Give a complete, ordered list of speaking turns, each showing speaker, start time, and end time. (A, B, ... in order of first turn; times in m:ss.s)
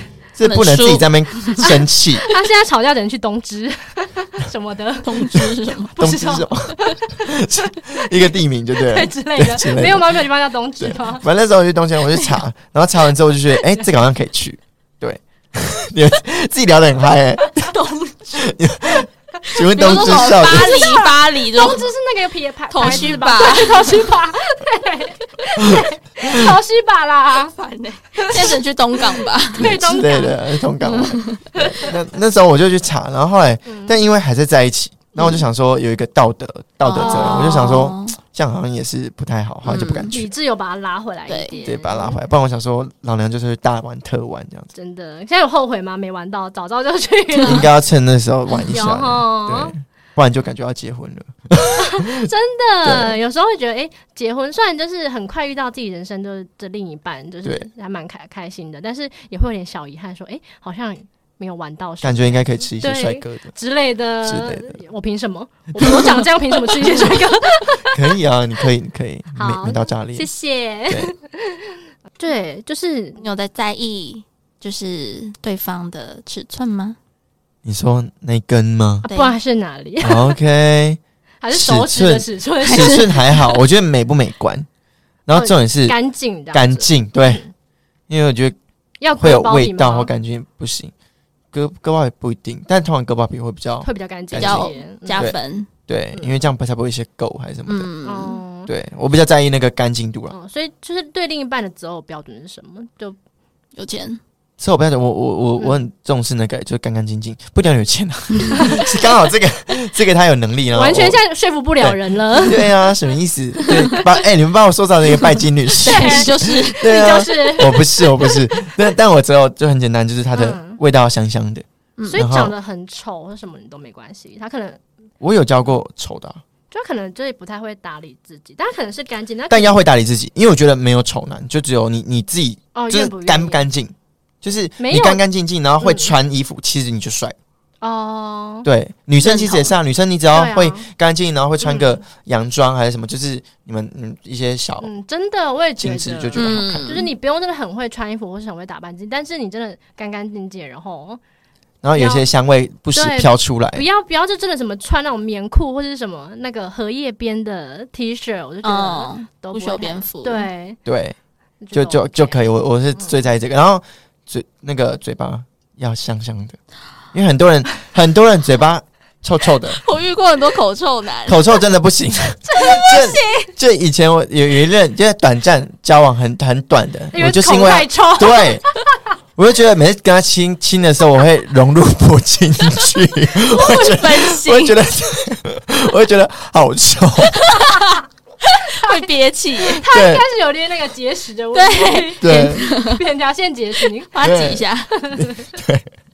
0:00.3-0:02.3 A
0:00.4-0:01.7 B
0:01.6-0:11.2 C
0:05.0-0:05.9 B
0:06.0-0:10.2 A
0:10.8-0:17.7 A
0:17.7-0:18.2 B
0:18.3-0:20.8 A
0:19.6-0:21.8 B
0:19.8-0:27.5 C
0:22.7-0:24.0 B
0:22.8-0:23.1 A
0:25.6-0:26.5 A
0:27.5-0:29.8 B
0:28.2-0:28.6 C
0:29.2-0:31.9 C
0:29.6-0:40.3 A
0:31.0-0:31.4 B
0:33.7-0:34.0 C
0:35.2-0:35.4 B
0:36.8-0:38.2 B
0:36.9-0:37.7 C
0:39.7-0:40.2 B
0:40.1-0:42.2 C
0:41.3-0:41.6 B
0:41.6-0:44.7 A
0:44.8-0:47.7 C
0:47.4-0:52.3 A
0:48.7-0:49.8 C
0:51.7-1:08.0 C
0:52.8-0:53.2 A
1:02.0-1:03.5 A
1:04.2-1:04.8 A
1:05.8-1:06.1 A
1:07.9-1:10.3 A
1:09.4-1:13.2 C
1:13.2-1:17.0 B
1:17.6-1:19.0 A
1:19.0-1:20.4 C
1:19.1-1:19.4 B
1:20.0-1:21.0 A
1:21.4-1:23.2 C
1:21.5-1:24.7 A
1:22.6-1:23.6 B
1:25.3-1:26.0 A
1:25.3-1:27.5 C
1:26.5-1:27.4 A
1:28.1-1:28.6 A
1:29.0-1:30.1 C
1:29.2-1:30.9 A
1:31.5-1:37.9 A
1:33.8-1:35.3 C
1:34.4-1:35.7 B
1:36.2-1:36.4 C
1:37.7-1:38.4 B
1:38.0-1:38.7 C
1:38.7-1:40.3 A
1:40.3-1:43.2 C
1:43.8-1:44.2 B
1:44.6-1:51.2 A
1:45.6-1:45.8 C
1:48.6-1:48.9 C
1:50.7-1:52.6 C
1:51.8-2:02.5 A
1:53.7-1:54.0 B
1:55.8-1:57.2 B
1:55.8-1:58.3 C
2:00.3-2:00.8 C
2:02.0-2:02.2 B
2:02.1-2:04.8 C
2:05.2-2:06.4 A
2:06.7-2:09.8 C
2:09.5-2:17.4 A
2:12.7-2:13.6 C
2:14.8-2:15.2 C
2:15.8-2:16.1 C
2:17.8-2:18.7 C
2:18.6-2:24.9 A
2:19.2-2:19.7 B
2:20.3-2:20.9 C
2:21.6-2:22.0 C
2:24.8-2:31.2 C
2:25.8-2:26.9 A
2:26.3-2:27.1 B
2:31.8-2:33.8 A
2:32.0-2:32.3 C
2:32.9-2:40.8 C
2:38.6-2:40.5 B
2:40.9-2:41.2 A
2:41.6-2:42.4 C
2:41.7-2:46.6 A
2:43.0-2:43.2 C
2:47.1-2:49.8 A
2:49.7-2:51.5 B
2:51.3-2:58.6 A
2:52.6-2:52.9 C
2:52.6-2:53.2 B
2:57.1-2:58.8 C
2:59.4-3:07.5 A
3:03.5-3:04.8 B
3:07.4-3:07.9 B
3:07.6-3:08.0 C
3:08.4-3:09.8 B
3:08.8-3:09.1 C
3:09.7-3:14.2 C
3:09.9-3:10.2 A
3:11.5-3:13.0 B
3:12.2-3:12.6 A
3:14.1-3:14.9 B
3:14.2-3:14.6 A
3:14.9-3:15.5 C
3:15.2-3:15.9 A